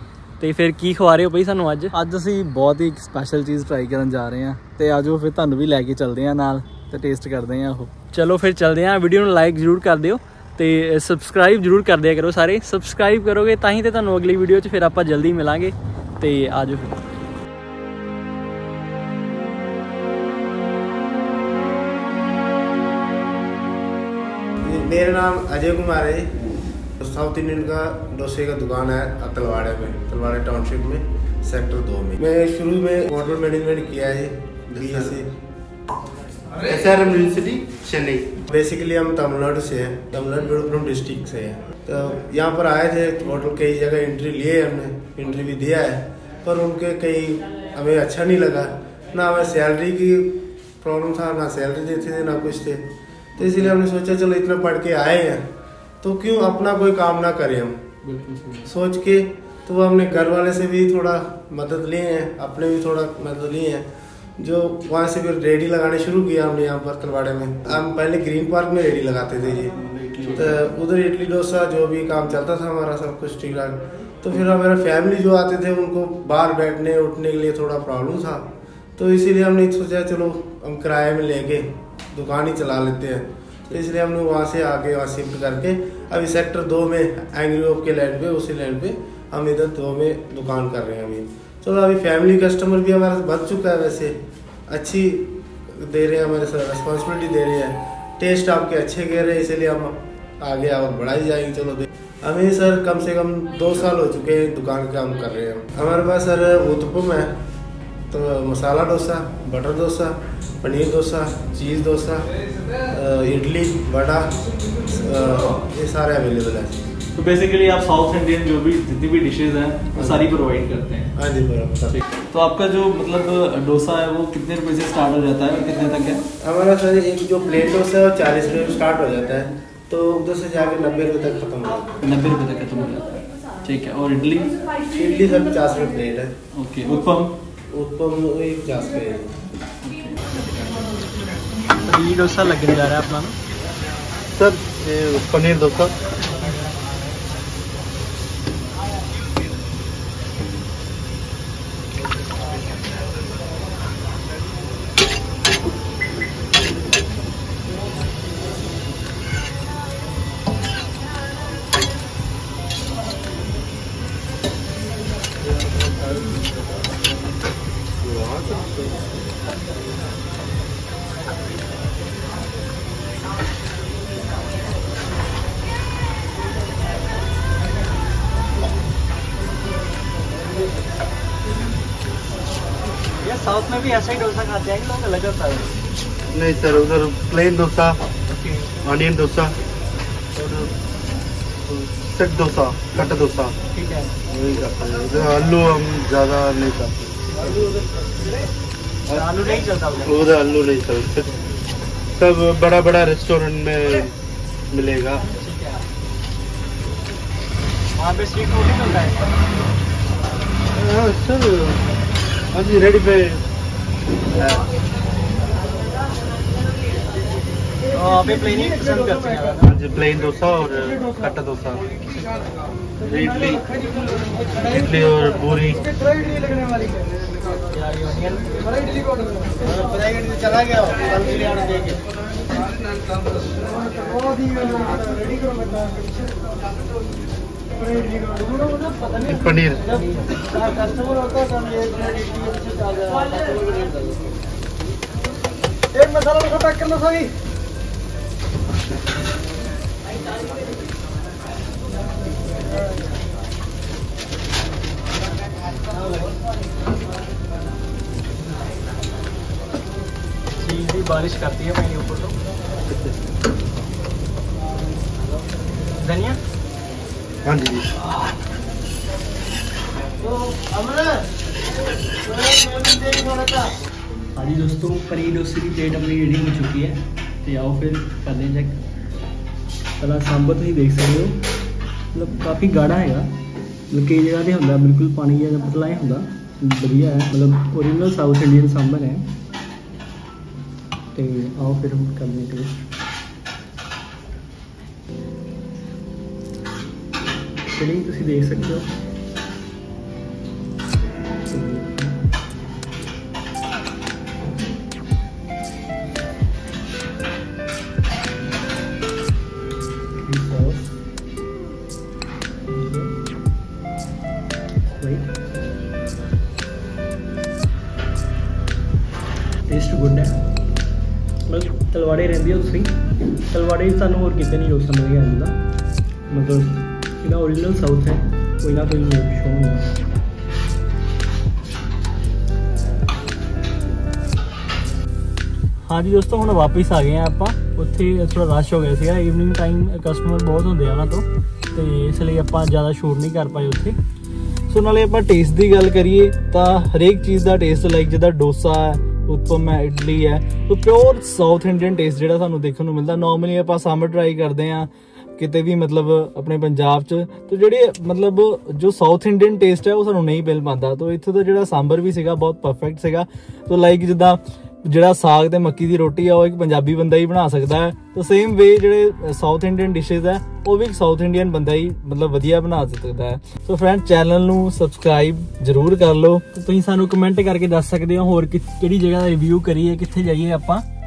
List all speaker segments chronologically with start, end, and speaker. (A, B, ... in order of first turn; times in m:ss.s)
0:00.4-0:01.9 A
0:01.9-0:07.9 B
0:08.1-0:17.0 A
0:24.6-0:26.3 C
0:27.0-0:35.3 C
0:34.7-0:35.2 D
0:36.6-0:38.3 D
0:38.5-0:55.4 C
0:56.0-0:57.8 C
0:58.0-0:58.6 B
0:58.6-1:03.9 C
1:04.4-1:09.8 C
1:09.8-1:10.6 B
1:10.3-1:34.2 C
1:34.7-1:47.3 C
1:48.1-1:52.3 C
1:52.9-1:56.8 C
1:57.1-2:01.2 B
2:00.0-2:00.2 C
2:01.2-2:02.0 C
2:01.9-2:06.2 B
2:06.4-2:11.9 C
2:12.0-2:14.6 B
2:14.9-2:16.3 C
2:16.5-2:17.4 B
2:17.7-2:19.3 C
2:19.8-2:20.4 B
2:21.8-2:23.4 A
2:24.4-2:25.9 D
2:45.4-2:46.4 D
2:48.0-2:49.0 D
3:03.2-3:05.7 A
3:06.3-3:08.0 D
3:08.6-3:09.6 D
3:10.3-3:10.7 D
3:11.7-3:13.5 D
3:13.7-3:14.2 A
3:14.3-3:17.8 D
3:19.1-3:19.5 D
3:19.1-3:20.3 A
3:20.0-3:21.4 D
3:22.2-3:24.1 D
3:24.7-3:25.2 D
3:25.3-3:25.8 A
3:28.0-3:29.3 A
3:30.7-3:31.8 D
3:32.5-3:33.4 D
3:34.3-3:34.7 D
3:37.9-3:39.7 A
3:39.6-3:41.8 D
3:42.1-3:42.5 A
3:43.0-3:43.7 D
3:44.5-3:45.9 D
3:47.7-3:52.0 A
3:58.3-3:59.2 A
3:59.1-4:00.1 D
3:59.9-4:04.3 A
4:06.0-4:07.3 A
4:16.0-4:16.3 A
4:20.6-4:22.4 A
4:26.0-4:26.4 A
4:27.4-4:27.9 D
4:30.5-4:31.1 C
4:32.3-4:33.7 C
4:34.4-4:38.8 A
4:40.0-4:41.5 A
4:42.1-4:43.4 A
4:43.9-4:49.4 A
4:51.2-4:52.8 A
4:57.6-4:58.9 A
5:01.5-5:02.2 A
5:10.2-5:10.9 A
5:12.7-5:13.2 A
5:15.0-5:15.4 A
5:19.7-5:20.5 A
5:21.5-5:25.6 A
5:26.3-5:29.9 A
5:35.9-5:44.0 A
5:44.7-6:16.4 B
6:16.5-6:20.8 A